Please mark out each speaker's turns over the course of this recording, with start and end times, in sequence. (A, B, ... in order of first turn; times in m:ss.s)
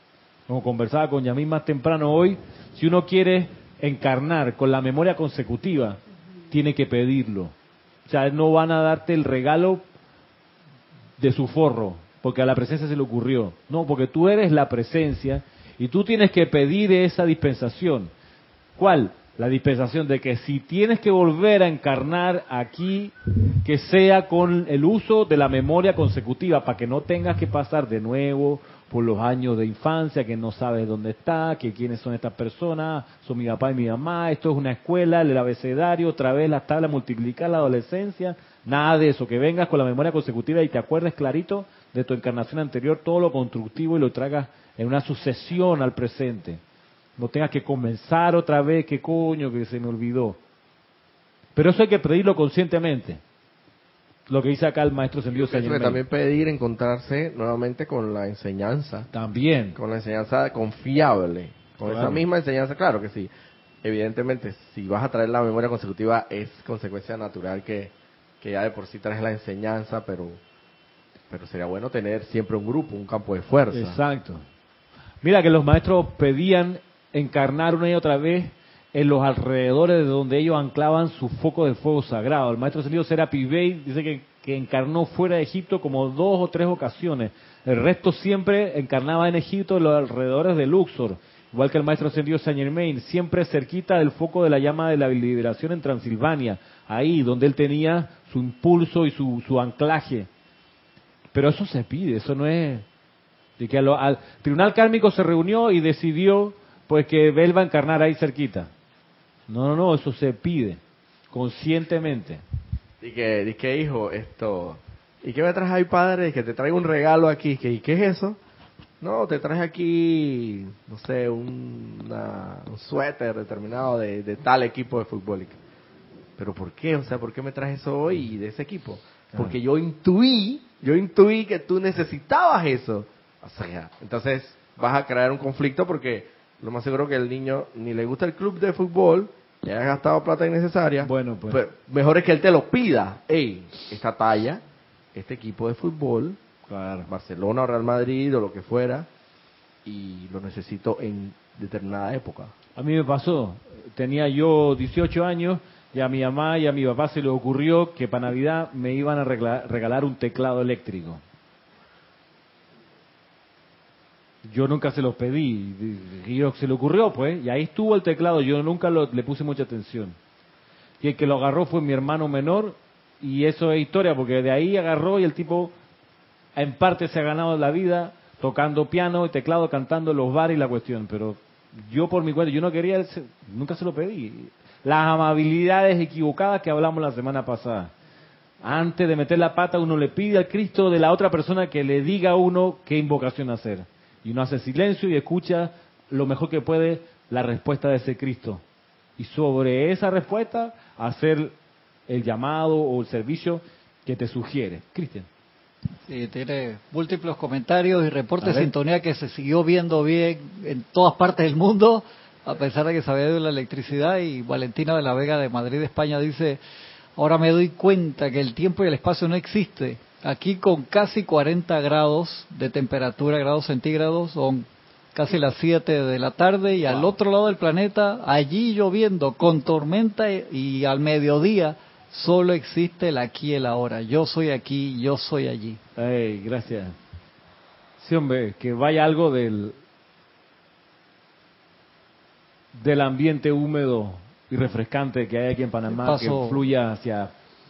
0:00.5-0:07.5 A
0:08.1-0:09.9 A
0:11.2-0:18.1 A
0:18.8-0:46.6 A
0:47.2-0:50.4 A
0:51.6-0:53.2 A
0:54.3-0:56.0 A
0:55.3-0:59.1 B
0:59.1-0:59.8 A
0:59.8-1:03.3 B
1:01.8-1:02.2 A
1:03.8-1:10.4 B
1:11.3-1:14.0 B
1:13.7-1:14.4 A
1:15.2-1:40.3 A
1:41.3-1:42.9 A
1:43.6-1:48.7 A
1:49.5-1:50.8 A
1:51.3-1:52.4 A
1:53.0-1:58.4 B
1:59.0-2:05.6 B
2:06.4-2:24.6 B
2:21.0-2:21.6 A
2:25.1-2:26.4 B
2:26.7-2:27.0 A
2:27.0-2:29.1 B
2:29.8-2:32.5 B
2:32.8-2:41.2 A
2:44.4-2:50.2 A
2:51.0-2:55.7 A
2:56.6-3:07.9 A
3:08.6-3:18.6 A
3:19.2-3:21.6 A
3:22.1-3:25.3 A
3:26.1-3:36.6 C
3:28.4-3:28.7 A
3:37.2-3:55.8 C
3:46.9-3:47.1 A
3:56.0-3:57.0 A
3:58.0-3:59.8 A
4:02.7-4:07.3 A
4:05.9-4:06.6 C